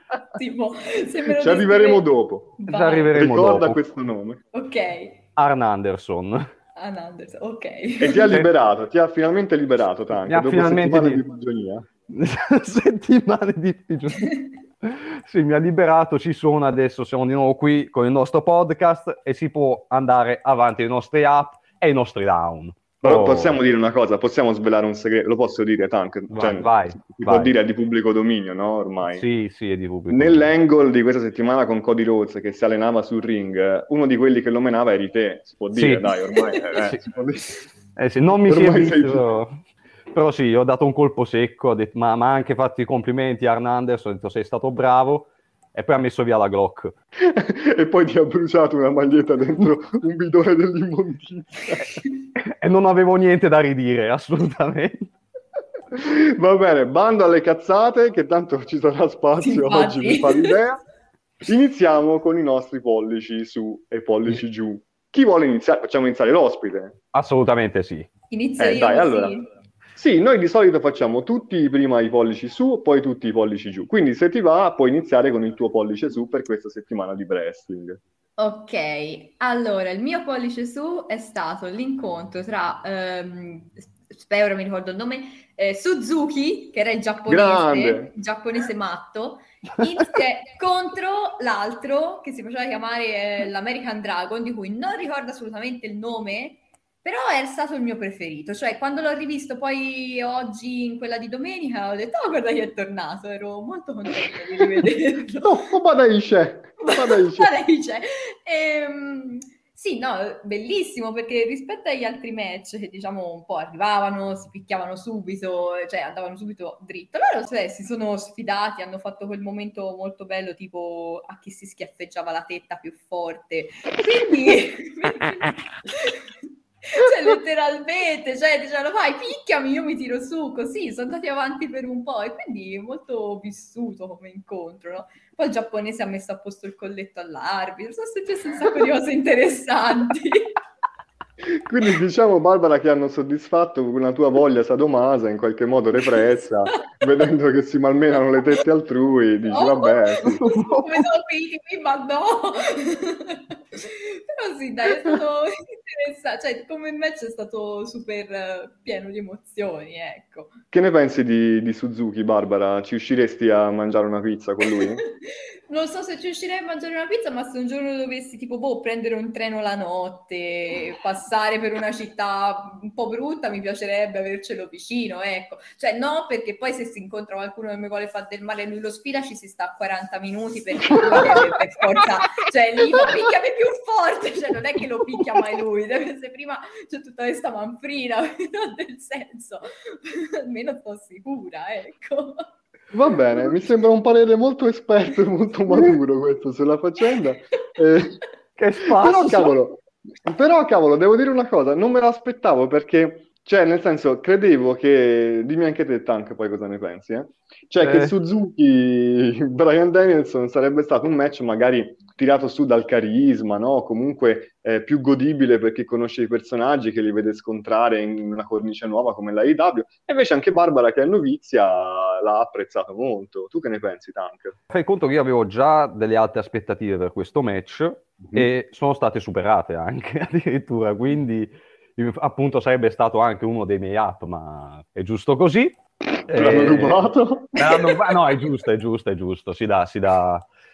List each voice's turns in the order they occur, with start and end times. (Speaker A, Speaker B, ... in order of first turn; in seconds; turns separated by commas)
Speaker A: 0.4-2.0, Speaker B: 1.3-2.5, Speaker A: 2.6-3.1, Speaker C: 2.7-3.8, Speaker B: 3.1-4.4, Speaker A: 4.5-5.2, Speaker C: 5.4-6.5, Speaker A: 6.8-8.4, Speaker B: 8.0-11.9, Speaker C: 10.2-11.2, Speaker C: 12.1-14.3, Speaker A: 14.2-14.4, Speaker C: 14.8-23.6, Speaker B: 23.0-29.2, Speaker C: 26.3-27.5, Speaker C: 29.1-30.5, Speaker B: 30.1-37.5, Speaker C: 35.7-36.1, Speaker C: 38.0-39.6, Speaker B: 38.4-39.2, Speaker C: 40.1-46.9, Speaker B: 47.2-52.0, Speaker C: 52.4-55.1, Speaker B: 55.9-60.8, Speaker A: 59.4-60.6, Speaker B: 61.4-67.0, Speaker C: 67.1-68.1, Speaker A: 68.3-69.5, Speaker B: 68.6-69.3, Speaker B: 70.0-78.0, Speaker A: 78.4-105.6, Speaker B: 87.3-88.1, Speaker B: 105.4-107.5, Speaker A: 106.8-126.3, Speaker A: 126.8-140.5, Speaker B: 141.4-150.4, Speaker A: 149.5-160.6, Speaker C: 150.4-150.9, Speaker B: 160.7-165.0, Speaker A: 164.7-192.5, Speaker B: 180.8-181.6, Speaker B: 192.9-198.2, Speaker C: 198.6-199.5, Speaker B: 198.9-224.6, Speaker C: 207.8-208.1, Speaker C: 224.7-235.8, Speaker B: 228.2-228.5, Speaker C: 236.3-240.4, Speaker B: 236.3-237.5